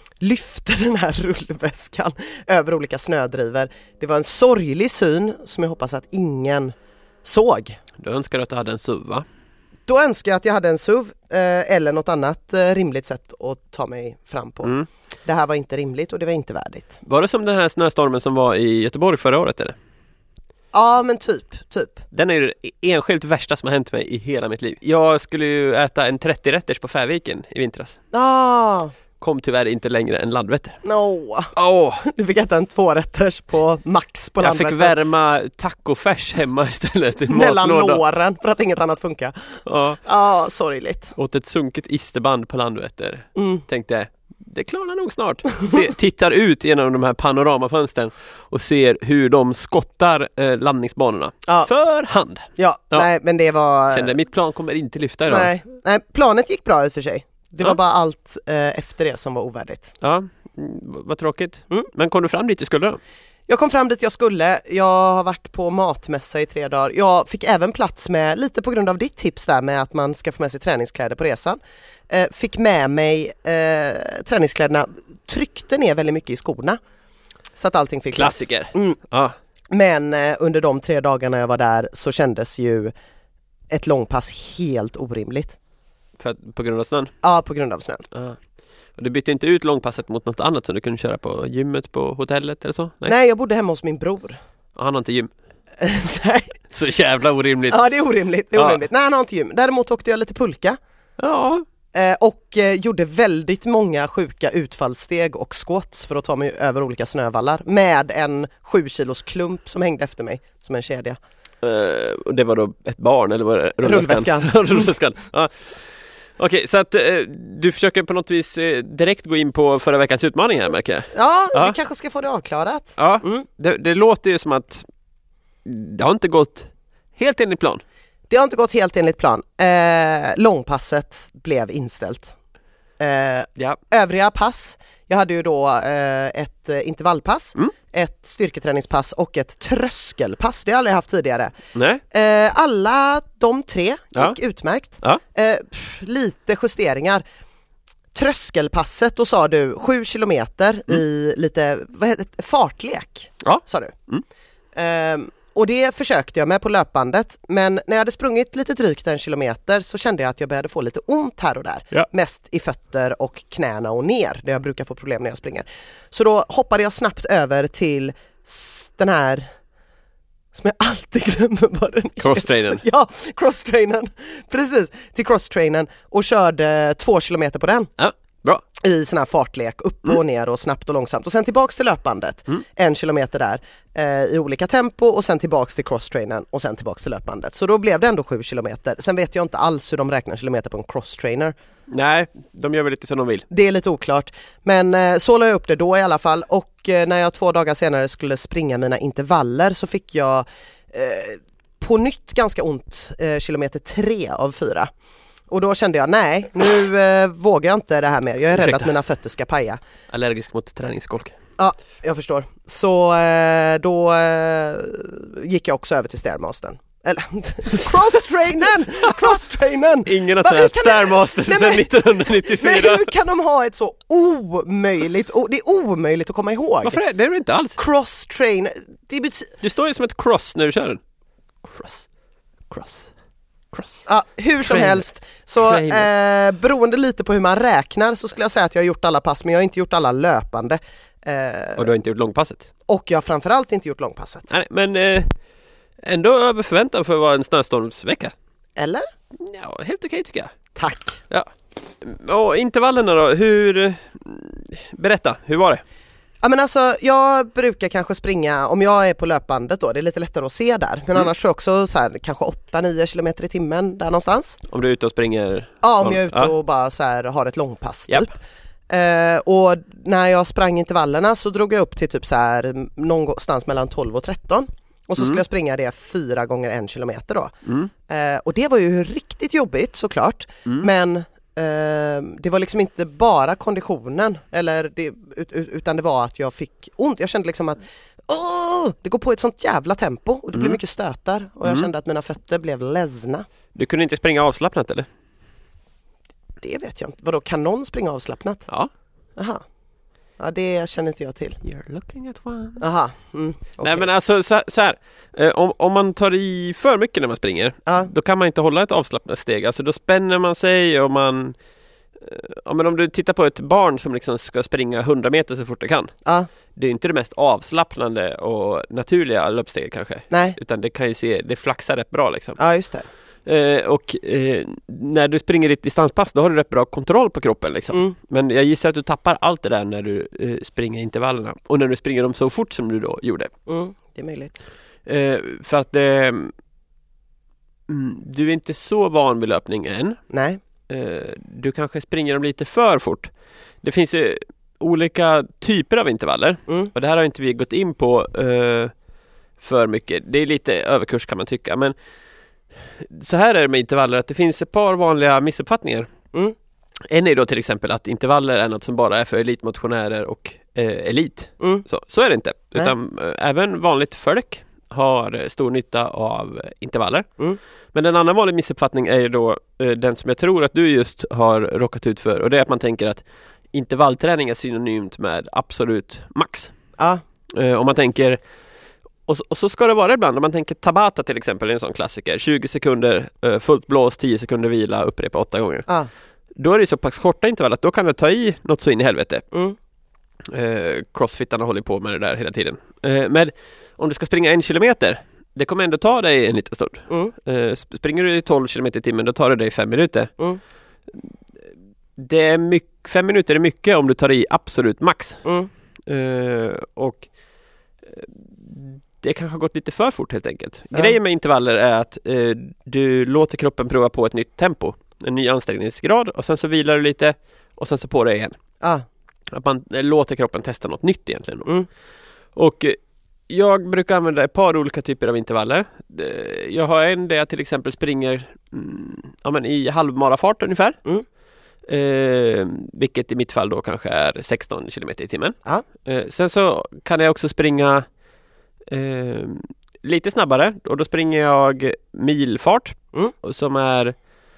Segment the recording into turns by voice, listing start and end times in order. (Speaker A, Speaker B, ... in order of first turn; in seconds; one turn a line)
Speaker A: 0.2-7.8
Speaker B: 8.0-9.3
Speaker A: 9.9-17.0
Speaker B: 17.1-19.8
Speaker A: 20.7-22.0
Speaker B: 22.1-28.0
Speaker A: 28.1-28.9
Speaker B: 29.2-30.8
Speaker A: 30.8-35.0
Speaker B: 31.6-32.0
Speaker B: 34.4-38.0
Speaker A: 37.3-41.1
Speaker B: 39.7-40.0
Speaker B: 41.2-53.1
Speaker A: 43.4-43.6
Speaker A: 52.6-54.1
Speaker B: 53.9-55.5
Speaker A: 55.3-59.9
Speaker B: 60.0-63.0
Speaker A: 63.5-71.6
Speaker A: 72.1-76.8
Speaker A: 77.6-79.0
Speaker B: 78.1-79.3
Speaker A: 79.7-82.9
Speaker A: 83.7-85.6
Speaker B: 86.2-87.1
Speaker A: 87.2-88.0
Speaker B: 88.1-88.4
Speaker B: 89.0-93.2
Speaker A: 93.1-94.4
Speaker B: 94.8-95.3
Speaker A: 95.8-96.6
Speaker B: 96.7-97.8
Speaker A: 97.7-100.8
Speaker B: 98.5-98.8
Speaker B: 101.2-101.7
Speaker A: 101.9-111.2
Speaker B: 111.6-115.8
Speaker A: 113.8-114.9
Speaker B: 116.4-121.8
Speaker A: 121.1-123.5
Speaker B: 123.0-124.8
Speaker B: 125.7-127.8
Speaker A: 128.3-132.3
Speaker A: 133.0-141.6
Speaker B: 141.7-142.0
Speaker A: 142.1-147.2
Speaker A: 148.1-153.9
Speaker B: 153.4-154.2
Speaker A: 154.8-169.5
Speaker A: 170.5-177.9
Speaker B: 172.2-172.8
Speaker B: 178.0-178.6
Speaker A: 178.8-191.5
Speaker B: 191.9-193.5
Speaker A: 193.5-204.9
Speaker A: 205.5-209.8
Speaker B: 208.5-208.9
Speaker B: 210.1-211.4
Speaker A: 211.6-227.0
Speaker B: 217.7-219.4
Speaker B: 220.1-223.1
Speaker B: 226.8-227.8
Speaker A: 227.8-229.5
Speaker B: 229.6-231.0
Speaker B: 231.6-232.1
Speaker B: 232.7-233.1
Speaker B: 233.7-234.1
Speaker A: 234.1-241.9
Speaker B: 234.7-235.0
Speaker B: 235.6-236.1
Speaker B: 241.8-242.7
Speaker A: 242.9-244.5
Speaker B: 244.5-245.3
Speaker B: 246.0-248.3
Speaker A: 248.8-249.1
Speaker B: 249.4-250.5
Speaker A: 250.8-251.2
Speaker B: 252.0-255.8
Speaker A: 256.4-264.6
Speaker B: 264.7-266.5
Speaker A: 265.8-268.4
Speaker A: 268.9-277.6
Speaker B: 277.6-277.9
Speaker A: 278.1-293.5
Speaker B: 293.8-295.1
Speaker A: 296.6-298.7
Speaker A: 299.4-299.6
Speaker A: 300.4-301.6
Speaker B: 301.6-302.8
Speaker A: 302.8-304.1
Speaker B: 303.8-311.6
Speaker B: 312.2-316.1
Speaker B: 316.8-322.6
Speaker A: 320.3-320.6
Speaker A: 322.6-323.1
Speaker B: 323.4-333.5
Speaker A: 333.7-334.7
Speaker B: 335.1-336.5
Speaker B: 337.9-340.2
Speaker A: 340.3-340.6
Speaker B: 340.9-343.3
Speaker B: 343.8-348.9
Speaker B: 349.6-351.9
Speaker B: 352.9-356.1
Speaker B: 357.1-367.3
Speaker A: 361.6-361.9
Speaker B: 367.9-376.7
Speaker B: 377.5-378.4
Speaker B: 379.3-385.9
Speaker B: 386.6-389.4
Speaker B: 390.5-400.3
Speaker B: 402.2-405.4
Speaker A: 405.4-405.7
Speaker B: 406.1-407.3
Speaker B: 408.1-418.6
Speaker B: 419.5-421.7
Speaker B: 422.6-423.0
Speaker B: 423.5-431.0
Speaker B: 431.9-438.1
Speaker B: 438.9-444.1